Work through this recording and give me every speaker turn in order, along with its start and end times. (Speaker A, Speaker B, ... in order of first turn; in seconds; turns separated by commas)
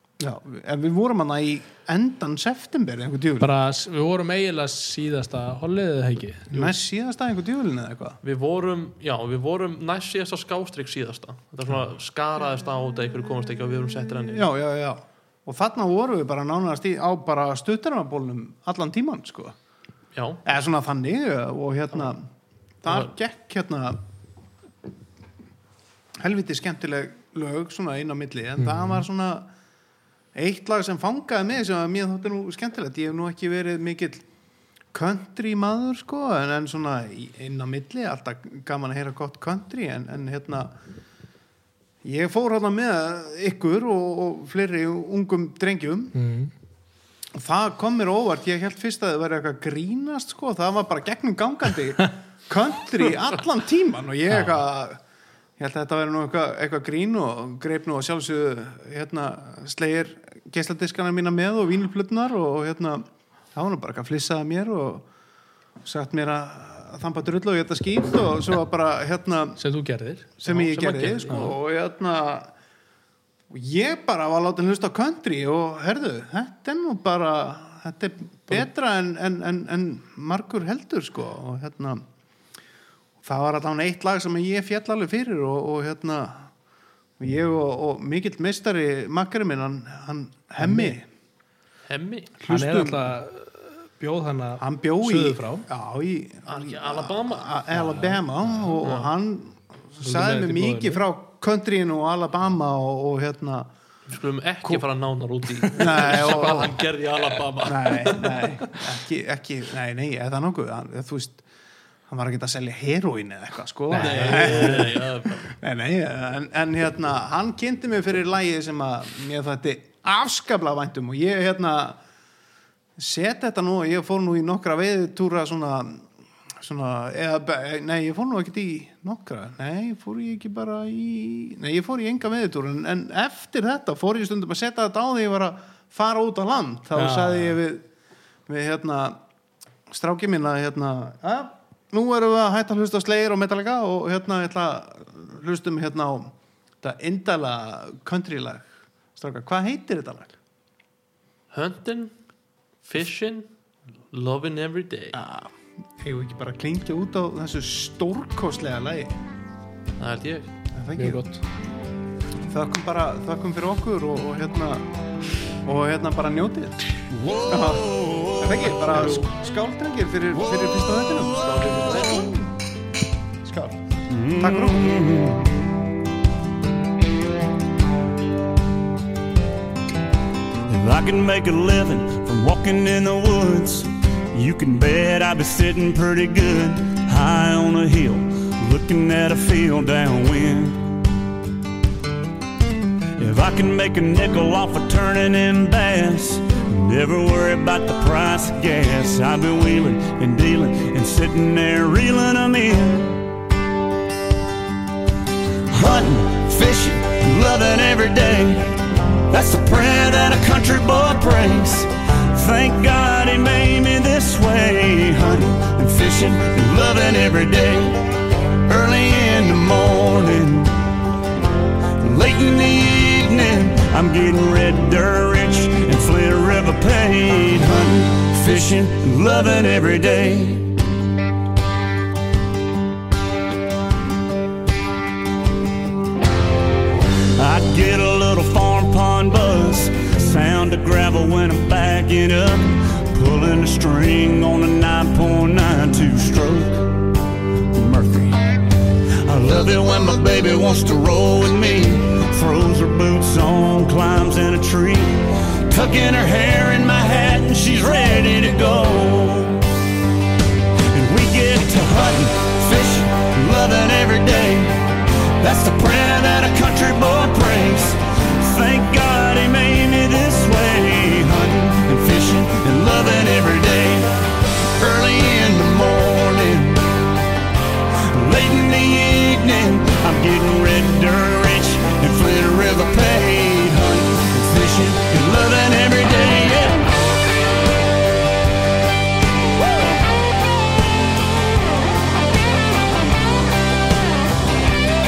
Speaker A: 0.2-3.5, Speaker B: 3.4-6.7, Speaker A: 6.5-8.2, Speaker C: 8.2-14.5, Speaker A: 12.9-19.6, Speaker C: 20.1-20.4, Speaker A: 20.4-22.2, Speaker A: 22.8-24.0, Speaker A: 26.2-29.5, Speaker B: 28.6-29.0, Speaker A: 30.3-34.2, Speaker A: 34.9-40.7, Speaker A: 42.0-46.1, Speaker B: 46.1-46.5, Speaker A: 47.3-55.0, Speaker B: 54.3-54.6, Speaker A: 55.6-65.0, Speaker A: 65.8-69.6, Speaker B: 69.6-70.3, Speaker A: 70.4-72.5, Speaker C: 70.4-71.5, Speaker A: 73.5-82.0, Speaker A: 83.2-86.5, Speaker A: 87.2-91.1, Speaker B: 90.6-90.9, Speaker C: 91.9-92.3, Speaker A: 92.4-93.0, Speaker B: 92.5-95.7, Speaker A: 94.6-103.7, Speaker C: 96.5-98.0, Speaker C: 98.8-99.1, Speaker B: 100.0-101.0, Speaker C: 104.1-108.8, Speaker A: 105.7-106.9, Speaker A: 107.6-111.4, Speaker A: 112.1-122.0, Speaker B: 113.9-114.9, Speaker C: 113.9-115.5, Speaker A: 123.0-126.1, Speaker A: 126.6-137.8, Speaker B: 136.9-137.6, Speaker A: 138.5-139.2, Speaker A: 139.9-150.4, Speaker C: 151.5-152.1, Speaker C: 152.8-153.5, Speaker C: 154.1-155.2, Speaker A: 155.1-159.1, Speaker C: 160.0-160.5, Speaker A: 160.7-161.2, Speaker B: 160.9-161.4, Speaker A: 162.4-164.8, Speaker A: 165.6-172.5, Speaker D: 167.1-168.6, Speaker C: 168.7-169.3, Speaker C: 171.4-172.4, Speaker A: 173.4-173.8, Speaker D: 174.1-175.5, Speaker A: 174.4-175.3, Speaker D: 180.7-191.0, Speaker D: 193.2-203.2, Speaker D: 205.7-220.8, Speaker D: 222.0-230.8, Speaker D: 237.3-247.1, Speaker D: 247.7-248.4, Speaker D: 249.2-259.7, Speaker D: 260.9-277.0, Speaker D: 278.1-286.9